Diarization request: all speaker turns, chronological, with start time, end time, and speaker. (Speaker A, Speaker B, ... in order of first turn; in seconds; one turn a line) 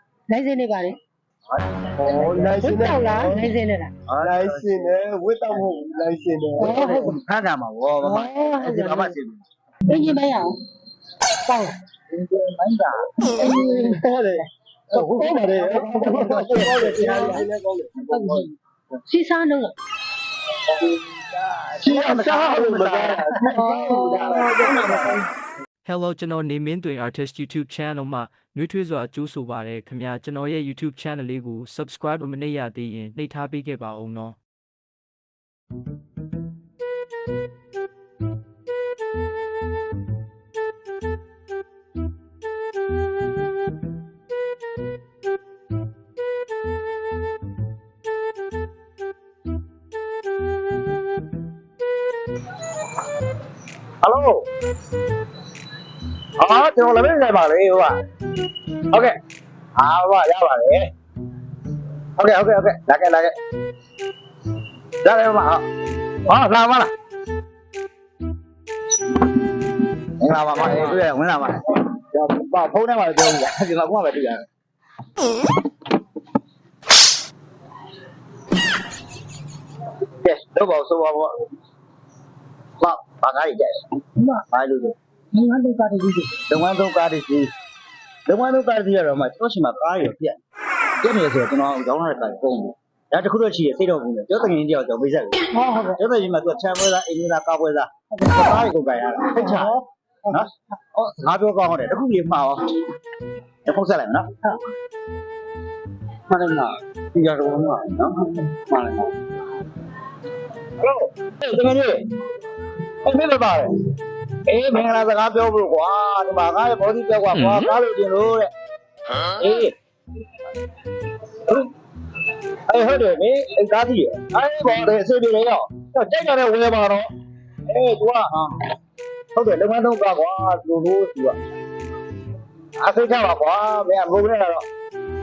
Speaker A: 0.3-1.0
Speaker B: 1.5-2.6
Speaker C: 2.0-3.5
Speaker A: 2.6-3.9
Speaker B: 4.1-5.0
Speaker C: 4.2-6.7
Speaker A: 6.6-7.2
Speaker B: 6.6-9.4
Speaker A: 8.0-9.2
Speaker A: 9.9-10.5
Speaker A: 11.5-11.8
Speaker B: 12.1-13.1
Speaker C: 13.4-18.5
Speaker B: 14.9-17.3
Speaker A: 16.4-17.5
Speaker A: 18.1-19.8
Speaker B: 20.7-23.3
Speaker C: 21.8-25.1
Speaker A: 23.5-25.2
Speaker D: 25.8-34.4
Speaker B: 54.0-54.5
Speaker B: 56.4-58.0
Speaker B: 59.8-60.9
Speaker B: 62.2-63.4
Speaker B: 65.0-65.6
Speaker B: 66.3-66.9
Speaker B: 70.2-74.4
Speaker B: 80.2-81.3
Speaker B: 82.8-85.0
Speaker A: 85.4-86.2
Speaker B: 86.3-87.5
Speaker B: 88.3-90.4
Speaker B: 91.0-99.8
Speaker A: 95.5-96.0
Speaker A: 98.1-98.5
Speaker A: 99.4-99.8
Speaker B: 100.3-102.8
Speaker B: 103.7-104.3
Speaker B: 106.3-109.1
Speaker B: 110.8-112.0
Speaker B: 113.0-113.8
Speaker B: 114.5-118.5
Speaker B: 119.2-119.7
Speaker B: 121.3-121.7
Speaker B: 122.7-127.1
Speaker B: 127.7-128.5
Speaker B: 129.3-131.4
Speaker B: 132.8-134.7